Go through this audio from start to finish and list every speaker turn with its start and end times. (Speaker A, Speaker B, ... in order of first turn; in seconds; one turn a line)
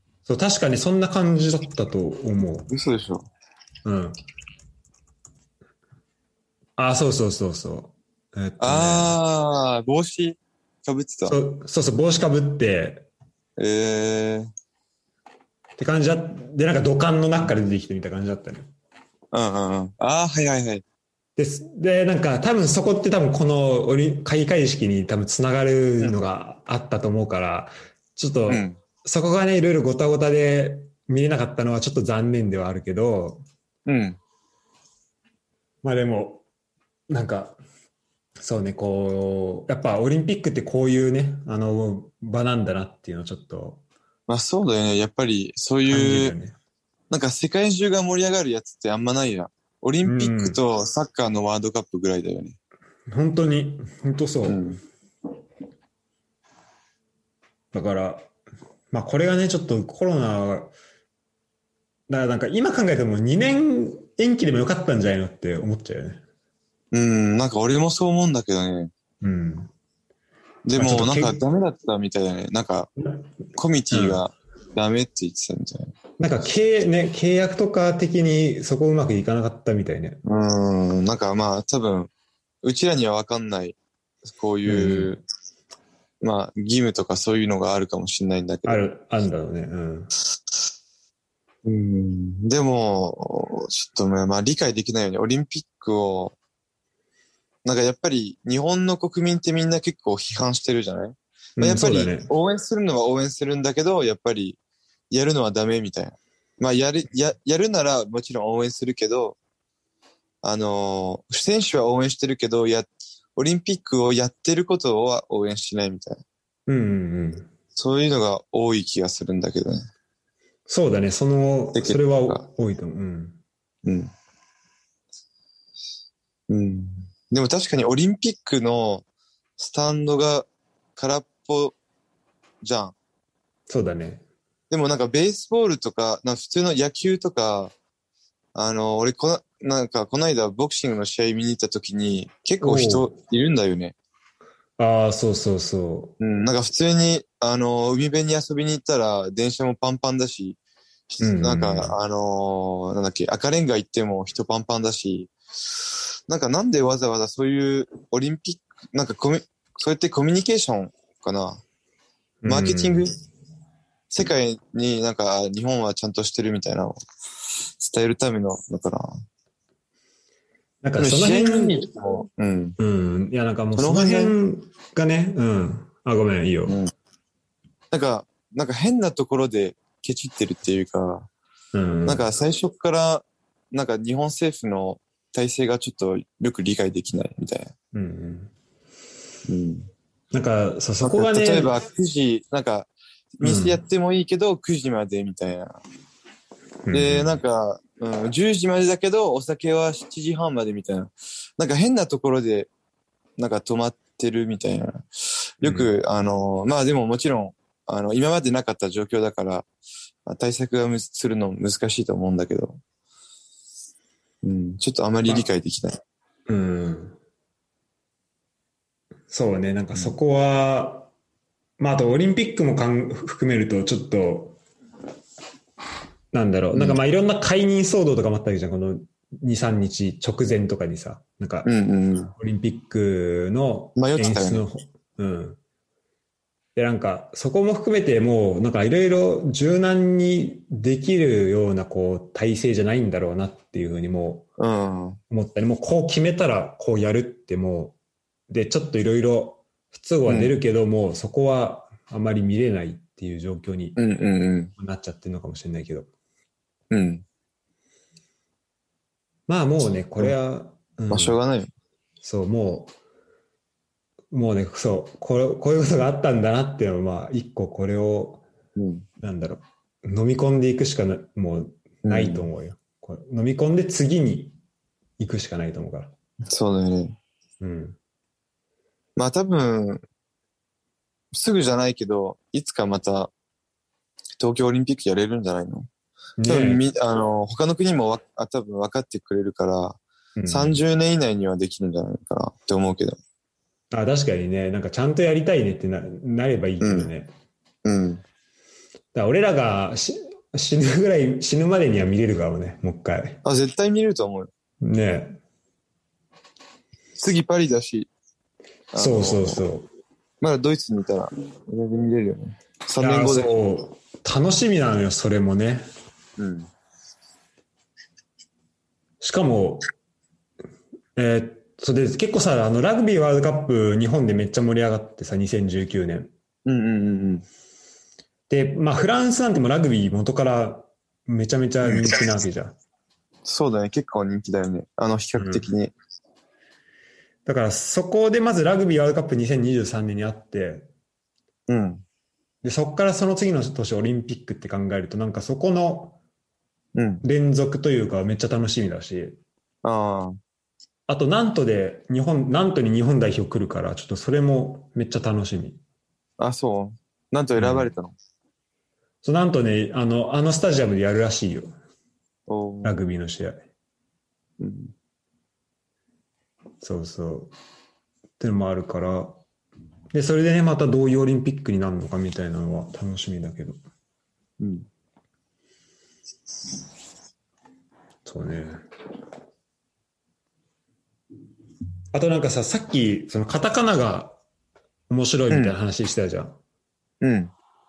Speaker A: 0.2-2.7
Speaker B: 2.7-3.3
Speaker A: 3.8-4.2
Speaker A: 6.8-9.2
Speaker B: 8.6-11.4
Speaker A: 11.3-13.1
Speaker B: 13.6-14.5
Speaker A: 15.8-18.7
Speaker B: 19.3-20.8
Speaker A: 21.4-33.4
Speaker B: 28.5-28.8
Speaker B: 33.9-34.2
Speaker A: 35.8-36.4
Speaker A: 37.1-37.6
Speaker A: 38.4-43.8
Speaker B: 44.3-46.3
Speaker A: 45.9-46.5
Speaker B: 47.1-52.6
Speaker A: 50.0-50.6
Speaker A: 53.1-54.7
Speaker B: 54.5-54.8
Speaker A: 57.7-58.3
Speaker A: 58.9-60.7
Speaker A: 62.1-66.2
Speaker B: 66.9-68.9
Speaker A: 69.2-69.7
Speaker B: 70.6-72.9
Speaker A: 70.8-71.4
Speaker B: 73.5-75.9
Speaker A: 73.9-74.2
Speaker A: 76.2-80.2
Speaker B: 80.2-82.1
Speaker B: 82.6-83.8
Speaker B: 84.3-85.2
Speaker A: 84.7-85.1
Speaker B: 86.2-88.8
Speaker A: 88.7-90.1
Speaker B: 91.6-96.3
Speaker B: 97.6-104.6
Speaker A: 101.6-102.3
Speaker B: 105.1-109.4
Speaker B: 110.4-116.2
Speaker A: 116.7-117.5
Speaker B: 117.8-119.8
Speaker A: 120.7-123.4
Speaker B: 121.7-122.4
Speaker B: 123.8-124.1
Speaker B: 126.5-129.0
Speaker B: 129.6-131.8
Speaker B: 132.6-132.9
Speaker A: 133.7-134.2
Speaker B: 134.7-137.7
Speaker B: 138.5-143.9
Speaker A: 142.6-143.1
Speaker A: 144.8-146.1
Speaker B: 146.2-150.6
Speaker B: 151.1-155.3
Speaker A: 151.2-151.9
Speaker B: 156.3-161.6
Speaker A: 162.4-163.1
Speaker B: 162.5-163.1
Speaker B: 164.1-166.9
Speaker B: 167.8-169.1
Speaker A: 170.8-171.8
Speaker B: 171.0-172.8
Speaker A: 172.8-176.8
Speaker B: 173.8-174.3
Speaker B: 177.9-181.3
Speaker A: 181.7-182.2
Speaker B: 182.1-187.7
Speaker A: 187.9-188.5
Speaker B: 189.5-189.9
Speaker A: 190.3-191.7
Speaker B: 191.0-195.8
Speaker A: 193.4-193.8
Speaker A: 196.8-197.4
Speaker B: 196.9-202.7
Speaker B: 203.4-205.0
Speaker B: 205.6-209.7
Speaker A: 205.6-205.9
Speaker B: 210.2-212.8
Speaker B: 214.4-216.0
Speaker A: 216.5-217.2
Speaker A: 219.3-221.1
Speaker A: 221.8-224.6
Speaker A: 226.3-231.7
Speaker B: 226.7-227.0
Speaker B: 231.6-232.3
Speaker A: 232.3-235.6
Speaker B: 233.9-234.6
Speaker A: 236.8-244.5
Speaker B: 244.6-245.2
Speaker A: 245.3-247.9
Speaker A: 248.5-254.0
Speaker B: 250.2-250.5
Speaker B: 253.9-254.7
Speaker A: 254.8-256.1
Speaker B: 256.9-257.2
Speaker A: 259.5-261.4
Speaker B: 261.1-261.7
Speaker A: 262.2-262.9
Speaker A: 264.3-268.4
Speaker B: 268.8-269.1
Speaker A: 269.2-274.6
Speaker B: 272.0-272.5
Speaker A: 275.2-276.1
Speaker B: 276.5-277.2
Speaker A: 277.6-278.0
Speaker B: 279.1-280.0
Speaker B: 281.3-283.3
Speaker B: 284.4-285.9
Speaker A: 286.4-286.8
Speaker B: 286.4-293.2
Speaker A: 290.4-290.8
Speaker A: 293.9-297.3
Speaker B: 296.8-297.1
Speaker B: 297.8-298.2
Speaker A: 299.1-303.4
Speaker B: 303.4-304.5
Speaker A: 304.8-305.4
Speaker B: 307.1-308.1
Speaker B: 308.9-309.6
Speaker A: 309.0-309.9
Speaker B: 310.4-313.5
Speaker A: 313.0-315.9
Speaker B: 316.4-316.7
Speaker A: 319.2-319.9
Speaker A: 321.1-326.3
Speaker B: 326.6-327.4
Speaker A: 328.5-332.7
Speaker B: 331.8-332.1
Speaker B: 333.4-335.9
Speaker A: 335.4-335.7
Speaker A: 337.4-340.9
Speaker B: 341.7-342.0
Speaker A: 342.6-346.2
Speaker B: 346.9-347.2
Speaker A: 347.2-349.4
Speaker B: 349.8-350.4
Speaker A: 351.1-355.8
Speaker B: 356.4-358.1
Speaker A: 357.6-357.9
Speaker A: 359.2-361.7
Speaker B: 362.5-362.9
Speaker A: 362.8-363.6
Speaker B: 364.6-364.9
Speaker A: 366.8-367.5
Speaker A: 368.4-369.4
Speaker A: 370.1-373.8
Speaker B: 374.6-374.9
Speaker A: 378.2-378.8
Speaker A: 382.1-384.4
Speaker A: 385.1-386.6
Speaker B: 385.5-385.7
Speaker B: 387.2-387.5